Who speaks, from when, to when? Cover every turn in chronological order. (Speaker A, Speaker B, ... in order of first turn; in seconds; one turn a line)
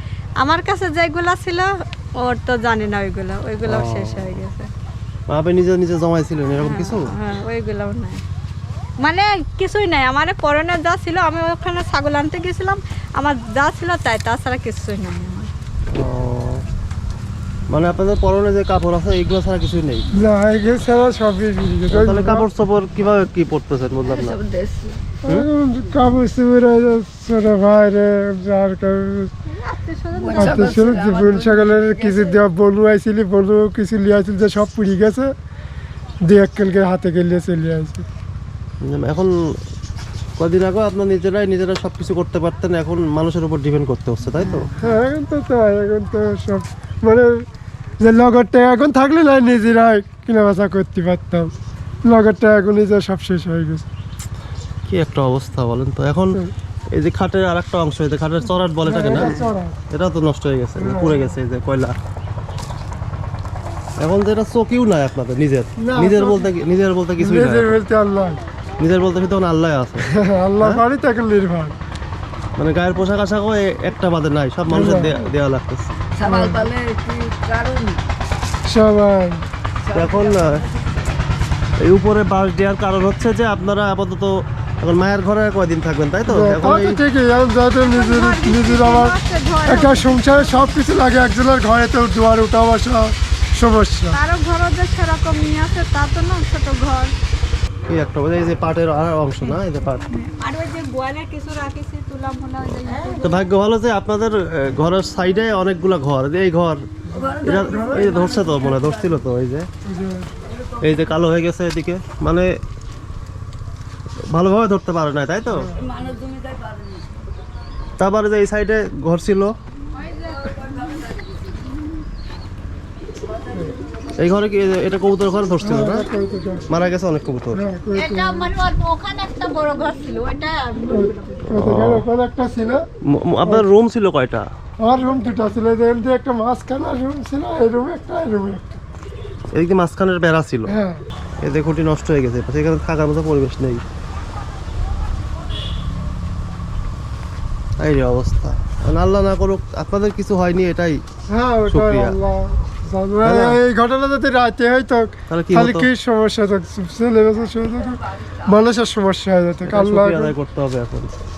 Speaker A: 0.4-1.7
Speaker A: 2.2-4.7
Speaker B: 3.7-4.4
Speaker B: 5.3-7.0
Speaker A: 6.6-8.2
Speaker A: 9.0-15.5
Speaker B: 15.9-16.6
Speaker B: 17.7-20.1
Speaker C: 20.1-22.5
Speaker B: 21.9-24.4
Speaker D: 24.0-25.1
Speaker C: 25.2-29.3
Speaker A: 29.5-31.0
Speaker D: 30.2-32.4
Speaker C: 30.3-35.3
Speaker C: 36.3-38.1
Speaker B: 38.8-39.3
Speaker B: 40.4-44.7
Speaker C: 44.7-47.3
Speaker C: 48.0-51.5
Speaker C: 52.1-53.9
Speaker B: 54.9-56.4
Speaker B: 56.9-59.4
Speaker C: 58.9-59.8
Speaker D: 59.1-59.5
Speaker B: 59.9-62.0
Speaker C: 60.8-61.4
Speaker B: 64.0-67.8
Speaker C: 65.8-66.5
Speaker C: 67.2-68.4
Speaker B: 68.8-70.1
Speaker C: 70.0-71.8
Speaker B: 72.6-76.0
Speaker C: 74.7-75.2
Speaker D: 76.2-78.0
Speaker C: 76.2-76.7
Speaker C: 78.7-79.4
Speaker D: 79.8-80.8
Speaker B: 79.9-80.6
Speaker B: 81.8-87.0
Speaker C: 86.3-89.2
Speaker A: 87.8-90.4
Speaker C: 89.7-94.2
Speaker A: 94.1-97.1
Speaker B: 97.9-100.0
Speaker A: 100.1-103.5
Speaker B: 102.7-106.8
Speaker D: 107.1-109.3
Speaker C: 107.2-108.1
Speaker B: 107.4-109.7
Speaker C: 109.9-110.3
Speaker B: 110.8-112.5
Speaker B: 114.3-115.7
Speaker C: 115.5-115.8
Speaker D: 115.8-117.2
Speaker B: 118.0-119.5
Speaker D: 120.4-121.4
Speaker B: 124.2-126.1
Speaker C: 125.6-126.7
Speaker B: 126.7-127.6
Speaker C: 127.5-128.5
Speaker A: 128.0-131.5
Speaker C: 130.9-132.8
Speaker B: 131.5-132.0
Speaker B: 133.1-134.5
Speaker C: 134.8-138.8
Speaker B: 139.5-140.7
Speaker C: 140.7-141.0
Speaker B: 141.4-143.8
Speaker B: 147.8-151.0
Speaker C: 151.3-160.3
Speaker B: 151.7-152.2
Speaker B: 153.2-153.6
Speaker B: 155.3-155.9
Speaker B: 159.7-161.1